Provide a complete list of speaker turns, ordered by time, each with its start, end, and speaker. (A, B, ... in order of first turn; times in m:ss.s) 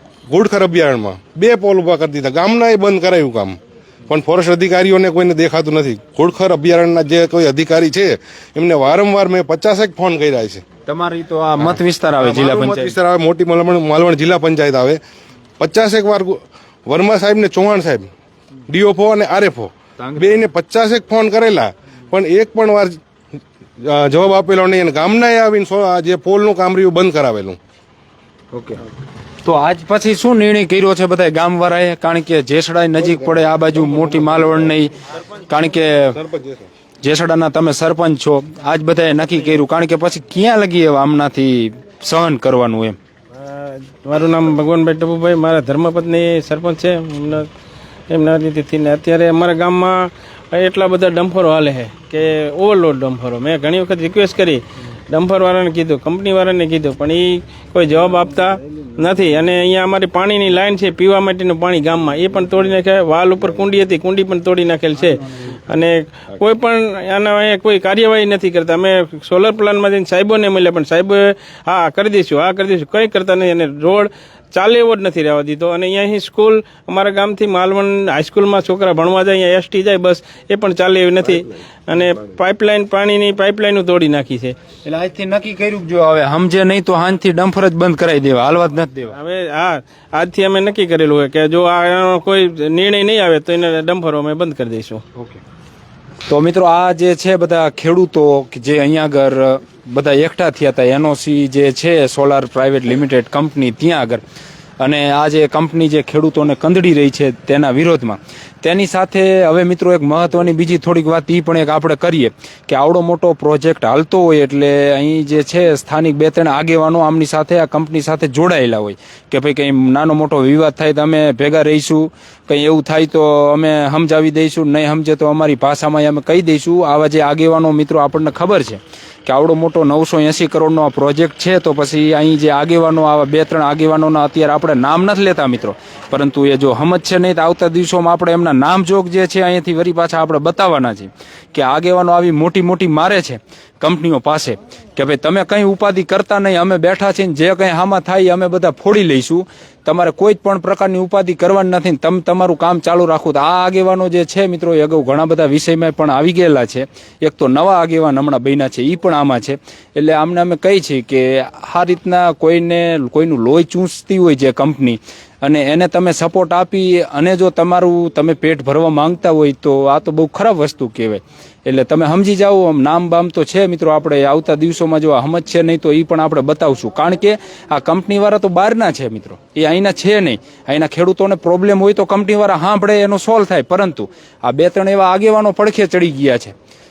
0:00.3-0:10.6 A
0:10.9-0:13.0 B
0:11.6-0:15.0 A
0:15.6-0:18.1 A
0:18.7-0:23.0 A
0:20.0-0:20.5 B
0:23.8-0:27.6 A
0:28.5-0:28.8 B
0:29.4-0:36.2 B
0:33.0-0:34.7 A
0:36.1-0:36.7 A
0:37.0-0:43.0 B
0:43.4-0:47.5 C
0:48.1-1:24.6 C
1:24.8-1:29.2 B
1:29.1-1:35.0 C
1:35.2-1:35.4 B
1:36.3-1:44.2 B
1:44.8-3:06.5 B